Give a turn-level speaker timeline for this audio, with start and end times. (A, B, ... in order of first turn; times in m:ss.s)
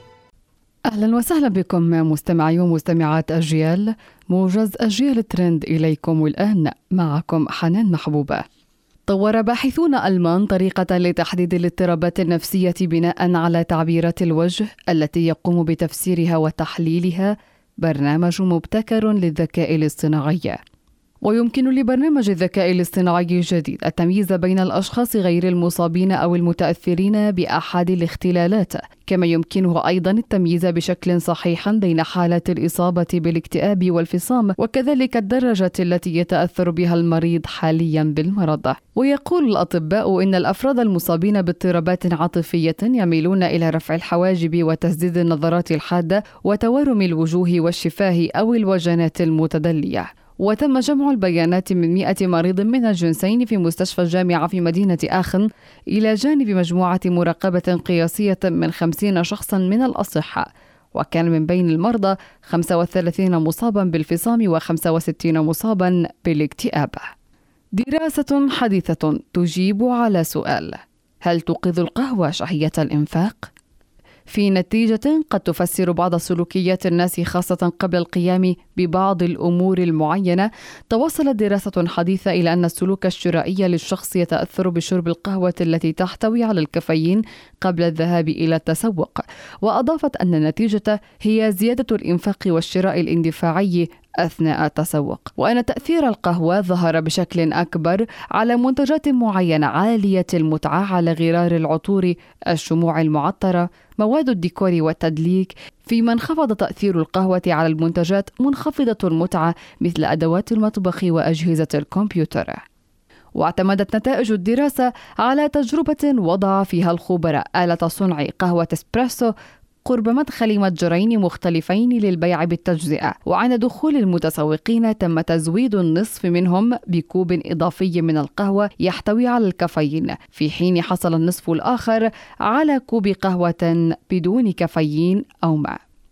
0:00.9-0:08.4 A
0:09.1-0:20.6 A
0:21.2-1:07.1 A
1:07.8-1:13.5 A
1:14.3-1:52.6 A
1:53.4-1:59.3 A
1:59.8-2:15.8 A